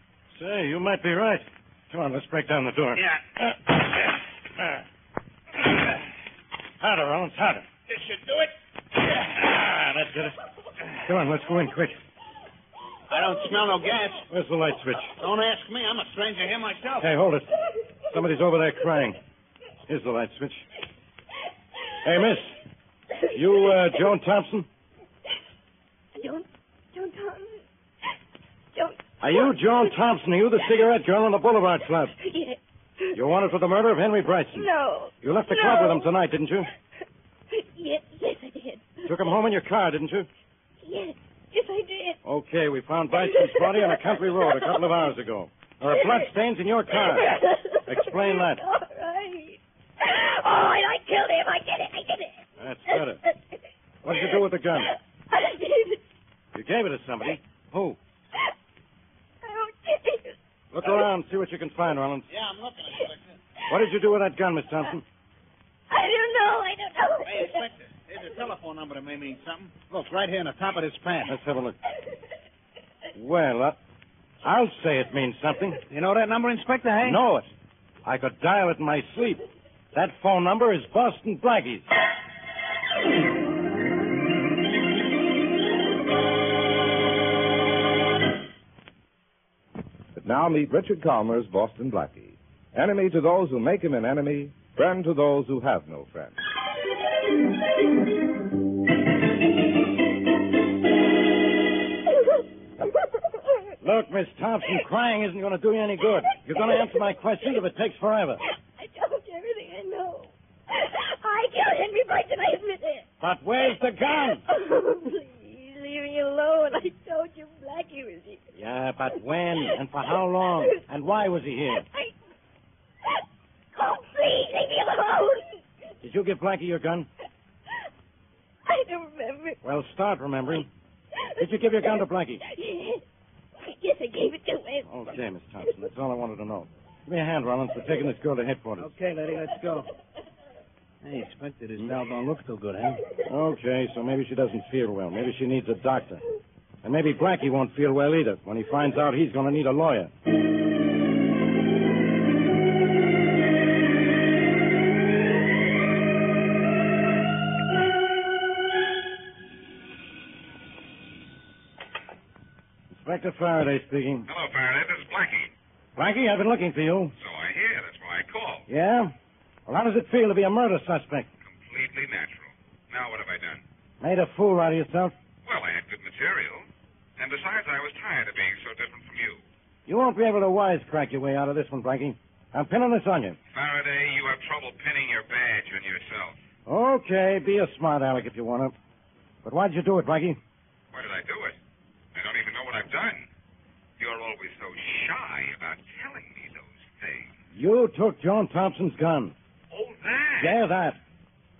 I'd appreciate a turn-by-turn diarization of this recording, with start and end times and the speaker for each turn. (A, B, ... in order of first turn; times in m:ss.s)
0:00.4-0:04.8 A
0:06.8-0:07.6 A
0:07.9-0:08.5 B
0:09.1-0:10.4 A
0:11.0-0:12.0 A
0:13.1-0:14.2 B
0:14.3-0:15.1 A
0:15.2-0:17.1 B
0:17.0-0:17.6 A
0:18.1-0:19.2 A
0:19.9-0:20.6 A
0:22.0-0:22.6 A
0:23.3-0:24.7 A
0:23.6-0:24.0 C
0:26.2-0:27.6 C
0:28.7-0:29.9 C
0:29.2-0:32.1 A
0:32.2-0:33.2 C
0:33.1-0:34.7 A
0:34.5-0:36.0 C
0:35.2-0:36.7 A
0:37.5-0:39.1 C
0:39.0-0:40.3 A
0:40.8-0:42.2 C
0:42.2-0:48.6 A
0:43.1-0:44.8 C
0:45.9-0:46.3 C
0:46.9-0:52.3 C
0:52.6-0:53.2 A
0:52.9-0:56.0 C
0:54.0-0:54.9 A
0:56.5-0:58.0 A
0:59.4-1:00.3 C
1:00.7-1:02.2 A
1:02.3-1:03.2 B
1:03.7-1:05.0 A
1:05.9-1:07.6 C
1:07.2-1:11.4 B
1:11.2-1:11.8 A
1:13.1-1:13.8 A
1:14.4-1:15.8 A
1:15.9-1:17.2 B
1:17.0-1:17.5 A
1:18.0-1:19.4 A
1:19.9-1:21.9 A
1:30.2-1:36.4 D
1:43.8-1:48.4 A
1:46.3-1:47.5 C
1:48.5-1:53.0 C
1:53.2-1:54.4 A
1:53.6-1:58.4 C
1:58.6-2:01.8 A
2:01.7-2:02.1 C
2:03.7-2:05.6 C
2:06.0-2:07.1 A
2:08.7-2:09.6 C
2:09.6-2:10.7 A
2:11.2-2:13.0 C
2:11.4-2:12.4 A
2:13.6-2:14.9 C
2:14.8-2:18.9 A
2:15.6-2:15.9 C
2:18.8-2:19.9 B
2:21.0-2:23.0 B
2:21.8-2:22.0 A
2:23.2-2:26.2 A
2:26.8-2:30.1 A
2:42.9-2:44.3 A
2:44.3-2:45.5 E
2:46.0-2:47.1 A
2:47.2-2:48.7 E
2:48.7-2:49.1 A
2:49.7-2:51.3 A
2:51.4-2:53.6 E
2:54.0-2:55.1 A
2:55.4-2:56.6 E
2:57.2-2:59.4 E
2:59.8-3:03.4 A
3:03.5-3:06.4 E
3:06.7-3:08.7 A
3:09.4-3:10.4 A
3:10.9-3:11.6 E
3:12.1-3:13.3 E
3:14.0-3:17.4 E
3:17.5-3:19.3 A
3:19.7-3:20.6 E
3:20.4-3:21.0 A